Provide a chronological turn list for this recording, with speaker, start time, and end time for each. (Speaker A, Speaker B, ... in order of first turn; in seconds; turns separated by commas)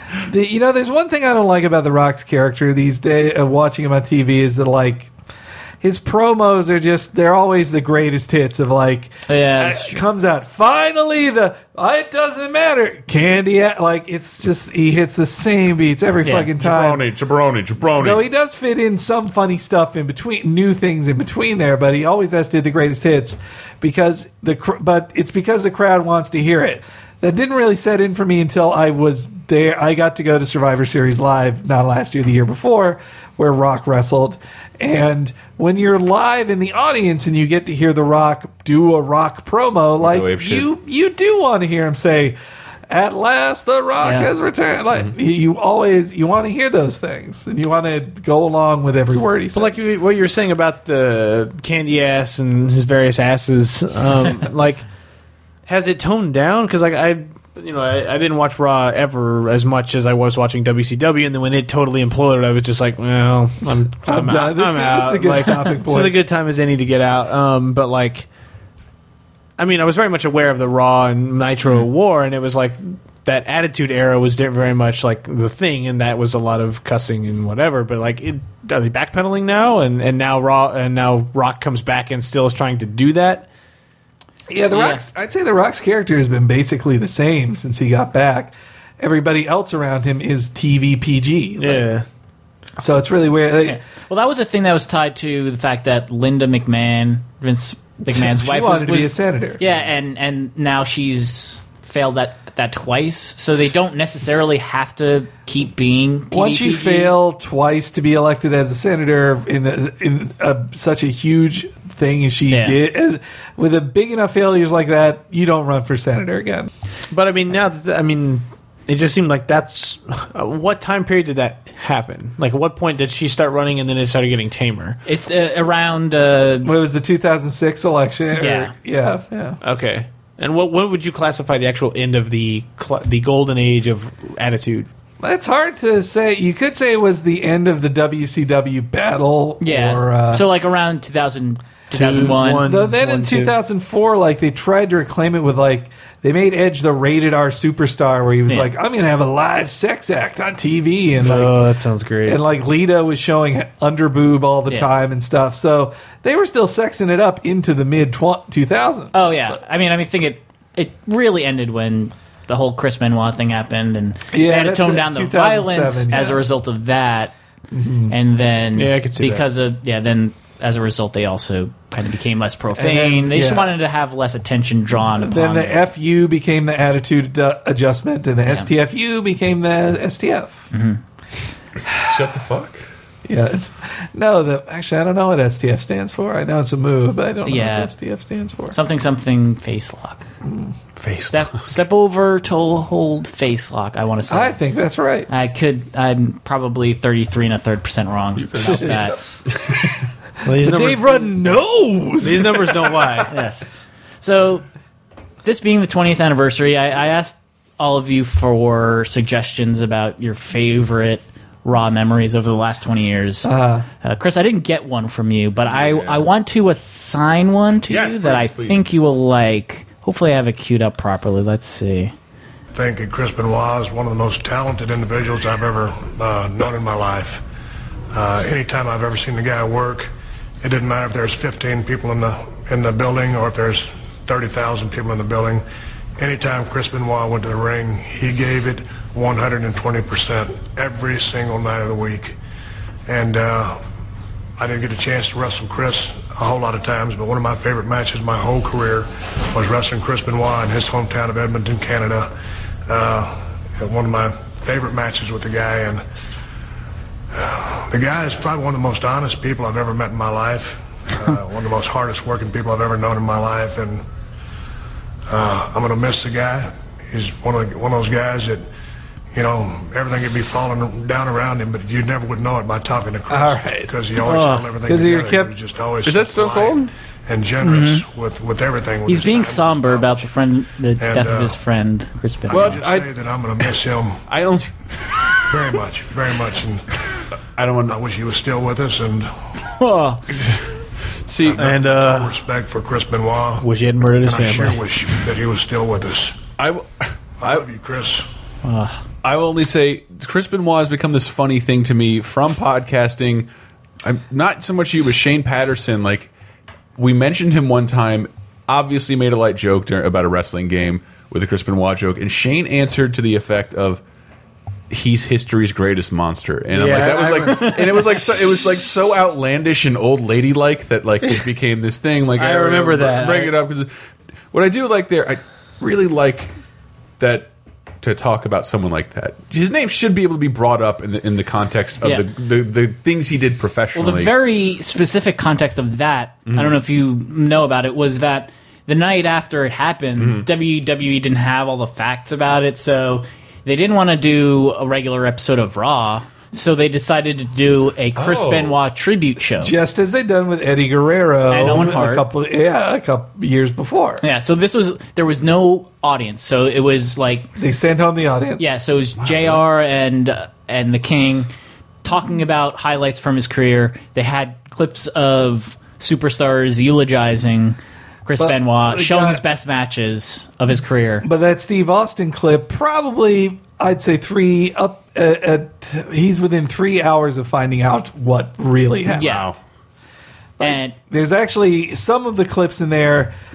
Speaker A: 0.2-5.1, Speaker A: 5.8-17.0, Speaker B: 9.3-10.0, Speaker B: 16.2-16.5, Speaker C: 16.6-18.2, Speaker A: 18.0-42.4, Speaker C: 40.0-40.7, Speaker A: 42.9-49.9, Speaker B: 44.0-44.3, Speaker D: 49.5-54.8, Speaker D: 55.6-68.3, Speaker A: 64.0-66.2, Speaker D: 69.6-83.5, Speaker A: 84.5-91.9, Speaker B: 84.7-85.0, Speaker D: 91.6-92.0, Speaker A: 92.8-93.8, Speaker B: 93.6-107.2, Speaker A: 98.0-99.6, Speaker A: 106.3-116.7, Speaker B: 112.5-112.8, Speaker D: 117.1-125.0, Speaker B: 125.0-126.7, Speaker A: 126.6-129.6, Speaker B: 128.3-128.7, Speaker D: 129.6-134.9, Speaker A: 135.2-140.5, Speaker B: 139.6-142.7, Speaker D: 141.9-143.6, Speaker A: 142.6-151.6, Speaker D: 151.2-152.4, Speaker A: 152.2-159.6, Speaker B: 159.1-167.3, Speaker A: 164.3-166.4, Speaker A: 167.7-168.1, Speaker B: 168.1-175.8, Speaker D: 168.8-169.4, Speaker A: 172.7-173.7, Speaker A: 175.1-180.7, Speaker B: 180.7-181.0, Speaker C: 182.0-182.8, Speaker A: 183.2-188.8, Speaker B: 187.4-187.9, Speaker B: 188.7-190.3, Speaker A: 190.4-190.7, Speaker D: 191.0-191.3, Speaker B: 191.3-194.6, Speaker A: 194.3-195.3, Speaker B: 195.3-199.2, Speaker C: 198.4-199.1, Speaker D: 200.4-201.5, Speaker A: 200.5-203.2, Speaker D: 202.2-203.3, Speaker B: 203.3-203.7, Speaker B: 204.2-204.6, Speaker B: 205.4-213.5, Speaker A: 213.4-213.9, Speaker B: 214.0-222.1, Speaker C: 215.7-216.3, Speaker C: 217.9-218.8, Speaker E: 222.7-227.4, Speaker E: 228.1-235.6, Speaker E: 236.2-242.4, Speaker E: 243.1-243.8, Speaker E: 244.6-252.3, Speaker E: 252.9-256.0, Speaker E: 257.3-264.0, Speaker E: 265.3-268.7, Speaker E: 269.3-280.3, Speaker A: 273.3-275.5, Speaker C: 276.0-276.9, Speaker B: 277.6-278.0, Speaker B: 279.1-282.8, Speaker E: 281.0-281.6, Speaker E: 282.5-284.2, Speaker C: 282.5-283.1, Speaker C: 284.3-284.7, Speaker E: 285.5-286.8, Speaker C: 287.6-288.0, Speaker E: 287.9-289.3, Speaker B: 289.8-290.2, Speaker C: 291.3-291.6, Speaker E: 291.4-293.7, Speaker D: 291.6-292.4, Speaker D: 293.6-294.8, Speaker E: 294.2-296.4, Speaker C: 296.6-297.6, Speaker E: 297.4-298.3, Speaker B: 298.6-299.0, Speaker C: 299.2-303.5, Speaker C: 304.0-306.3, Speaker C: 307.0-314.0, Speaker C: 314.9-323.9, Speaker D: 316.7-318.1, Speaker D: 322.3-323.6, Speaker C: 324.5-326.5, Speaker C: 327.2-327.5, Speaker C: 328.0-334.3, Speaker B: 333.9-349.7, Speaker C: 336.5-336.7, Speaker C: 340.2-340.5, Speaker C: 348.1-348.8, Speaker A: 349.6-354.2, Speaker B: 351.5-352.2, Speaker B: 354.2-357.5, Speaker A: 357.6-358.7, Speaker B: 358.6-361.5, Speaker C: 359.2-359.6, Speaker B: 362.0-371.2, Speaker A: 368.4-369.4, Speaker A: 371.2-379.4, Speaker B: 379.1-379.5, Speaker C: 379.2-379.6, Speaker A: 380.6-383.3, Speaker B: 380.6-380.9